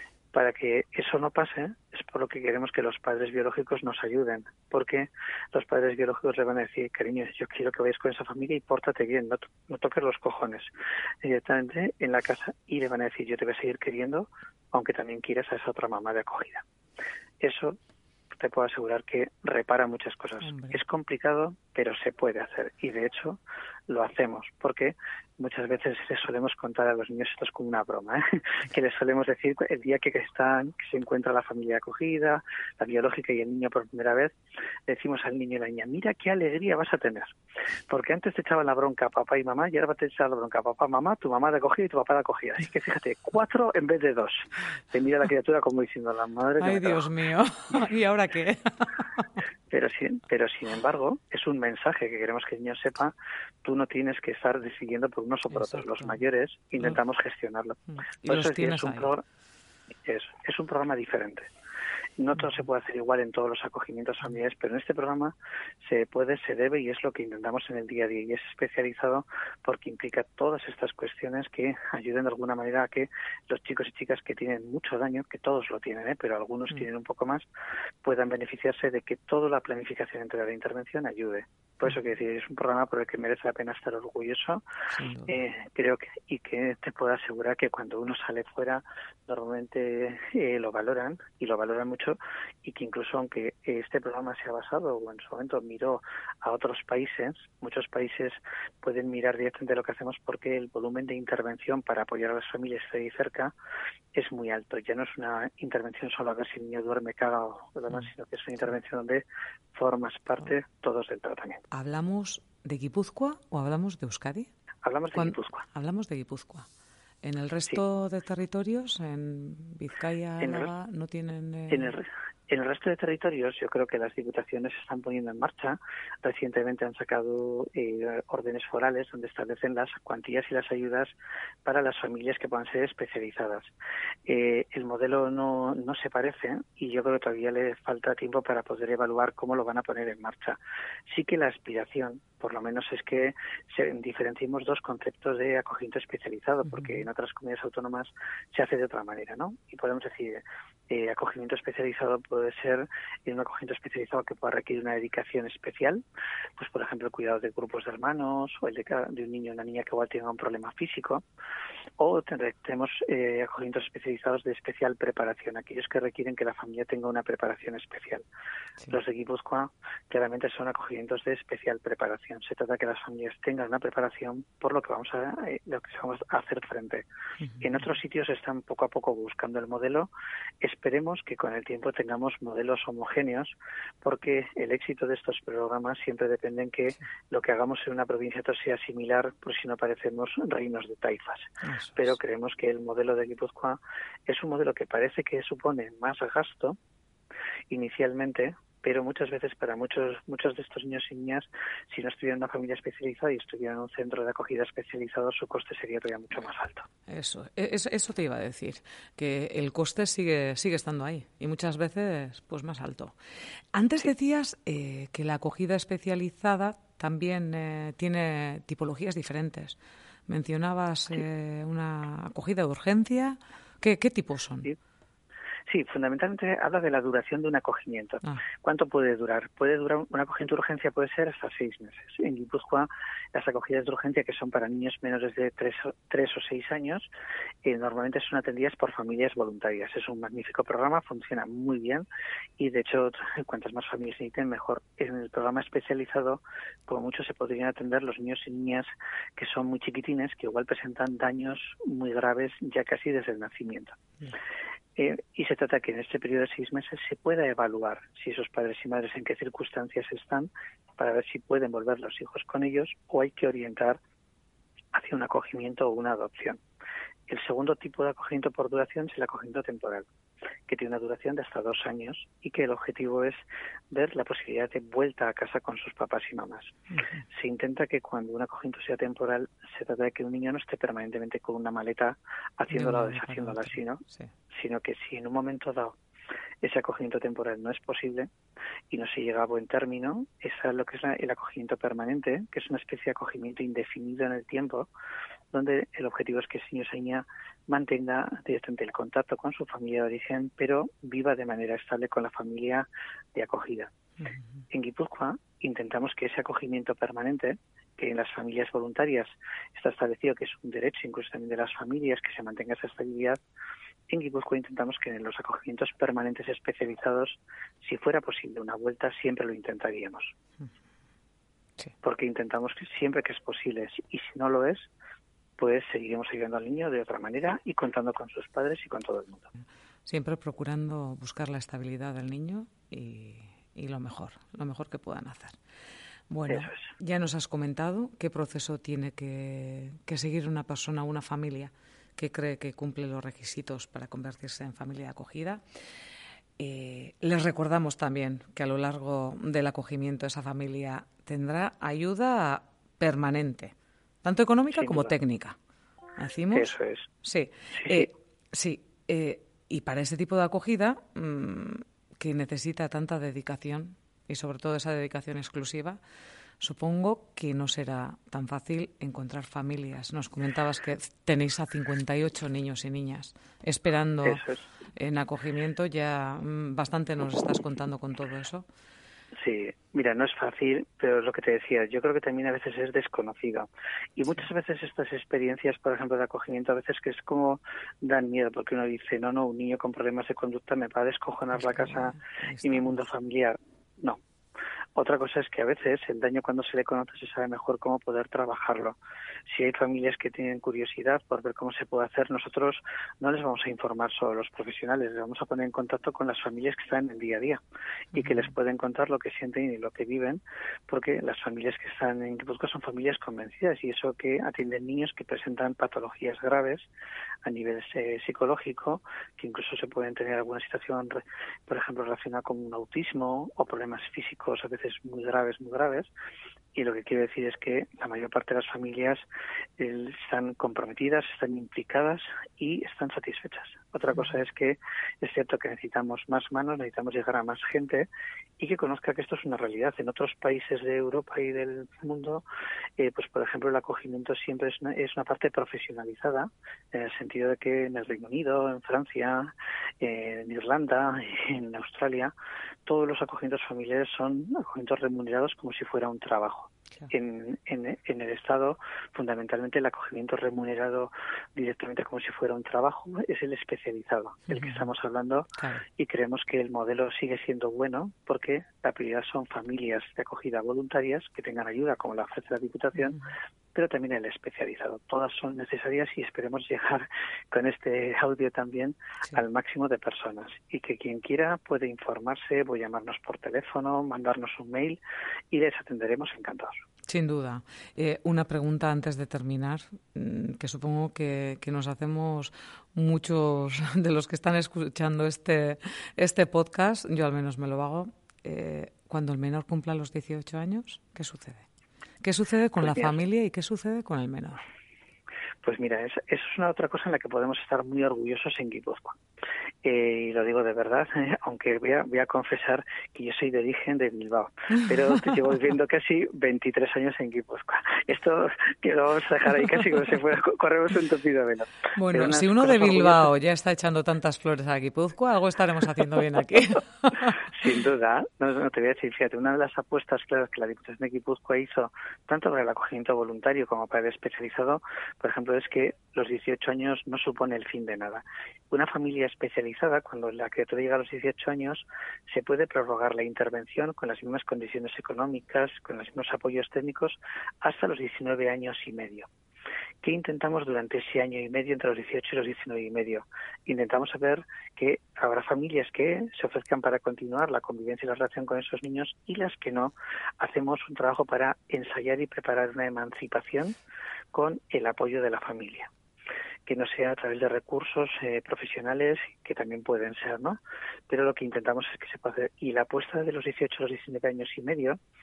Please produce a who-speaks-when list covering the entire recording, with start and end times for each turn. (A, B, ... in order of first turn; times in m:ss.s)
0:00.3-0:10.7 A
0:11.2-0:16.6 A
0:17.4-0:17.8 A
0:18.4-0:34.3 A
0:20.4-0:20.8 B
0:34.9-0:37.3 A
0:37.9-0:47.1 A
0:46.6-0:49.4 B
0:49.7-0:59.2 A
0:55.5-0:56.2 B
0:57.9-0:59.1 B
1:00.0-1:01.5 A
1:02.2-1:17.5 A
1:18.0-1:24.6 A
1:24.9-1:25.3 B
1:25.2-1:43.5 A
1:44.1-1:51.6 A
1:51.7-1:54.5 B
1:54.8-1:55.6 A
1:55.1-1:56.6 B
1:57.2-2:01.9 B
2:00.4-2:00.7 A
2:01.7-2:11.1 A
2:11.6-2:13.7 A
2:14.2-2:36.0 A
2:26.7-2:27.0 B
2:36.6-2:41.2 A
2:42.0-2:48.2 A
2:48.9-2:57.0 A
2:57.6-3:00.1 A
3:00.6-3:16.8 A
3:11.6-3:12.0 B
3:17.7-3:26.9 A
3:27.1-3:33.2 B
3:33.7-3:44.7 B
3:45.7-3:57.1 A
3:57.6-4:02.1 A
4:02.6-4:14.0 A
4:15.0-4:24.0 A
4:24.9-4:26.6 A
4:27.3-4:30.1 A
4:30.7-4:36.8 A
4:36.9-4:37.2 B
4:37.3-4:46.0 A
4:42.7-4:44.3 B
4:46.6-4:48.3 A
4:48.9-4:54.9 A
4:55.5-5:03.9 A
5:04.7-5:13.4 A
5:14.1-5:20.3 A
5:22.0-5:24.9 A
5:25.6-5:29.5 A
5:30.0-5:35.6 B
5:36.3-5:45.6 B
5:36.5-5:36.9 A
5:46.6-5:55.6 B
5:54.8-5:55.1 A
5:56.2-6:06.0 B
5:56.5-5:57.1 A
5:57.8-5:58.0 A
6:06.6-6:14.4 B
6:14.2-6:14.7 A
6:14.9-6:18.6 B
6:19.4-6:34.2 A
6:31.6-6:32.9 B
6:35.0-6:39.0 A
6:39.5-6:47.6 A
6:48.1-6:48.5 B
6:48.1-6:56.9 A
6:57.4-7:06.1 A
7:06.7-7:09.2 A
7:09.8-7:18.1 A
7:18.6-7:22.4 A
7:23.0-7:32.3 A
7:32.8-7:53.2 A
7:44.5-7:44.8 B
7:45.6-7:45.8 B
7:53.7-8:05.0 A
8:05.5-8:06.8 A
8:07.1-8:21.6 B
8:22.2-8:24.6 B
8:22.8-8:23.1 A
8:25.6-8:29.2 A
8:29.8-8:43.3 A
8:42.0-8:47.4 B
8:47.4-9:09.3 A
9:10.0-9:23.8 A
9:24.3-9:25.9 A
9:26.6-9:35.0 A